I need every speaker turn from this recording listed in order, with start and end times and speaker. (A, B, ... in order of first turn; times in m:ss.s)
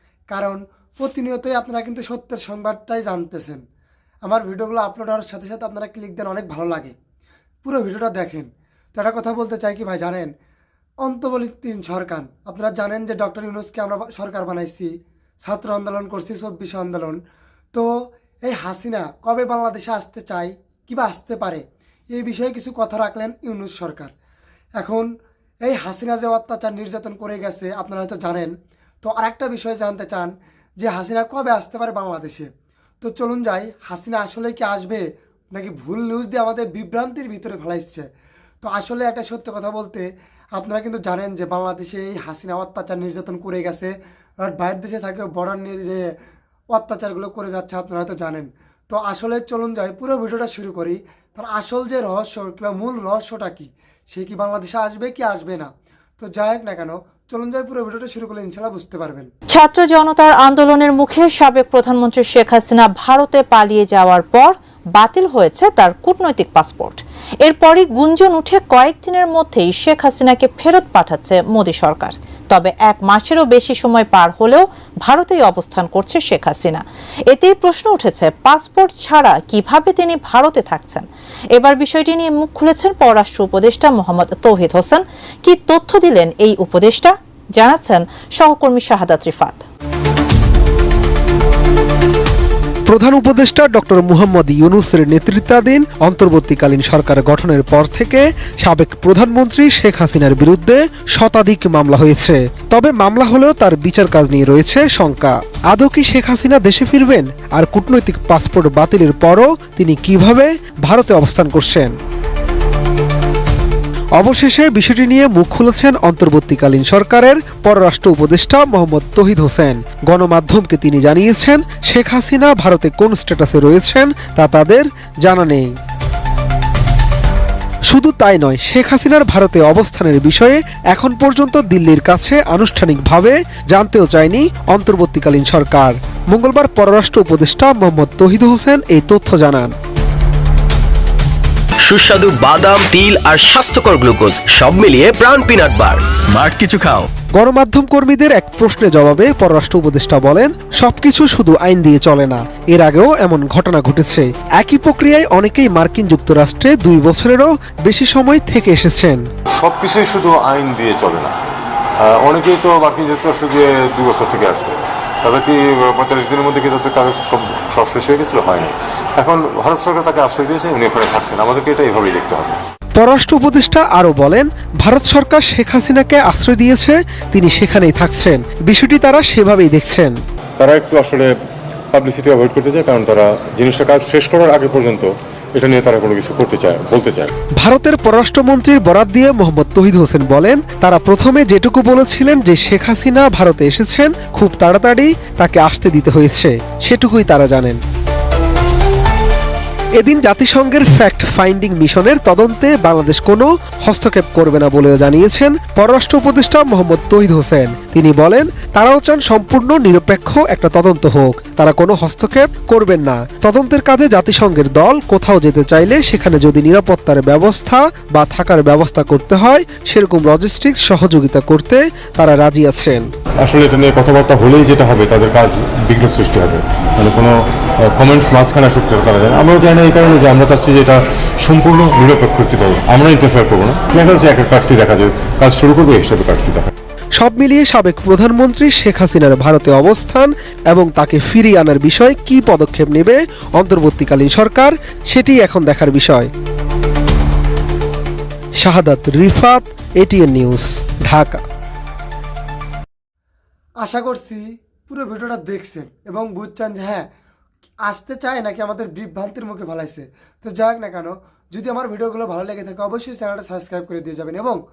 0:00.3-0:03.6 A
0:04.2-0:06.9 A
0:07.6-0:10.3 A
0:11.0-0:14.9 A
0:15.4-0:17.2 A
0:18.4-0:24.1 A
0:24.8-0:25.1 A
0:25.6-0:32.5 A
0:33.0-0:38.1 A
0:38.6-0:46.1 A
0:46.7-0:59.3 A
0:59.5-1:29.6 B
1:32.9-1:51.9 C
1:54.2-2:05.7 C
2:07.9-2:19.7 C
2:21.8-2:27.1 D
2:27.3-2:39.2 C
2:39.5-2:41.3 E
2:42.0-2:52.6 E
2:53.0-3:00.1 C
3:00.6-3:01.3 E
3:01.9-3:07.3 E
3:07.6-3:17.8 C
3:20.0-3:43.1 C
3:43.4-3:56.7 E
3:57.2-4:06.3 C
4:08.6-4:11.4 C
4:13.8-4:17.0 A
4:17.8-4:24.6 A